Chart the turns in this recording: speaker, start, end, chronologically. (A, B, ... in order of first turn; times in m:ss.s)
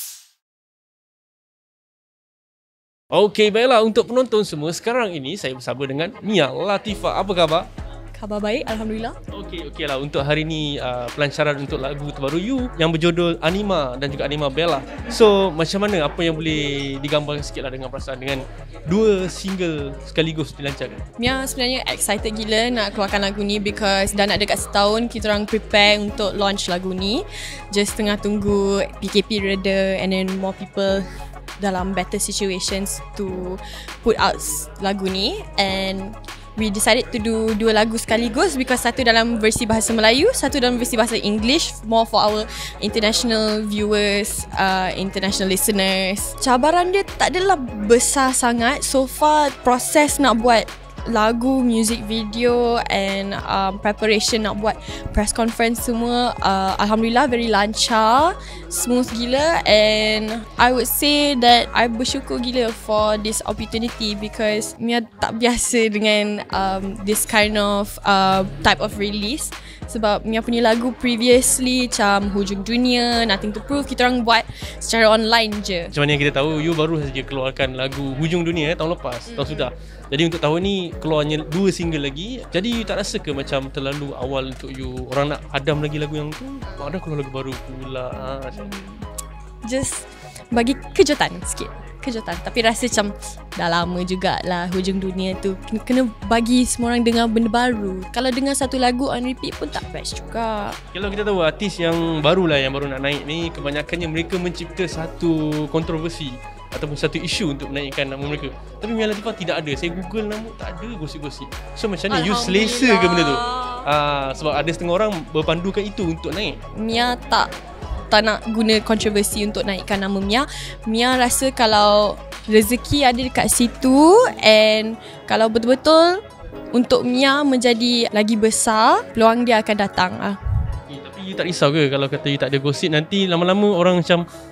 0:03.1-0:07.7 A
0:08.2-0:09.2 B
0:09.3-0:21.0 A
0:21.2-0:31.0 B
0:31.6-1:15.9 B
1:15.9-1:28.7 A
1:19.3-1:19.7 B
1:28.5-1:29.1 B
1:29.6-1:40.8 B
1:40.9-1:56.6 A
1:52.1-1:53.9 B
1:56.7-1:57.5 B
1:58.1-2:06.2 B
2:06.7-2:10.4 B
2:10.9-2:14.2 A